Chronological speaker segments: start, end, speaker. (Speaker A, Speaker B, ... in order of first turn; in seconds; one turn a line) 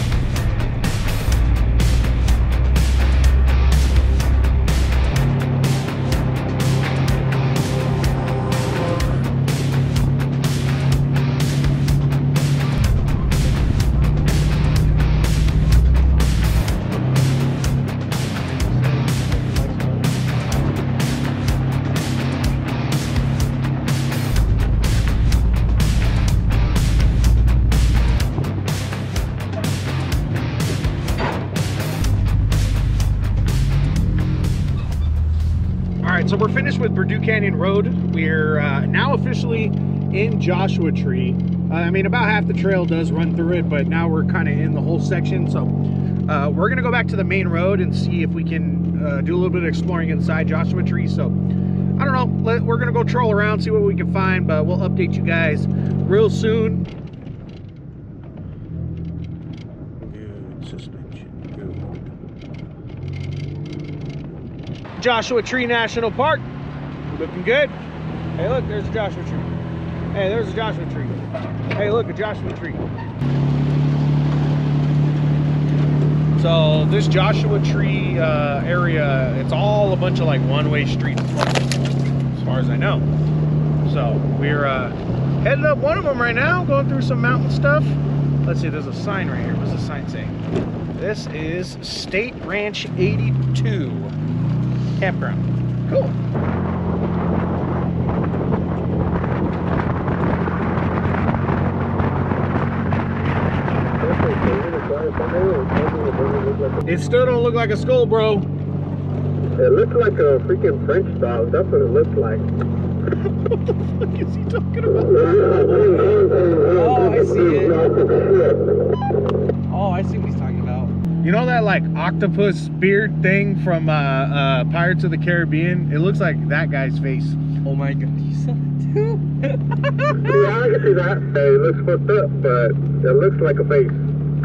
Speaker A: 18.8-20.1
Speaker B: 36.0-45.7
Speaker B: 46.3-51.4
Speaker B: 52.0-56.9
Speaker B: 60.0-61.9
Speaker B: 65.0-66.5
Speaker B: 67.1-67.8
Speaker B: 68.4-69.5
Speaker B: 70.1-71.2
Speaker B: 71.7-72.8
Speaker B: 76.4-81.8
Speaker B: 82.3-83.1
Speaker B: 83.8-90.4
Speaker B: 91.0-94.2
Speaker B: 95.0-96.2
Speaker C: 104.0-106.8
Speaker B: 106.8-108.5
Speaker C: 109.6-112.5
Speaker B: 113.1-115.8
Speaker A: 116.6-118.0
Speaker A: 119.7-120.9
Speaker B: 121.2-127.8
Speaker A: 127.7-129.2
Speaker C: 130.2-134.0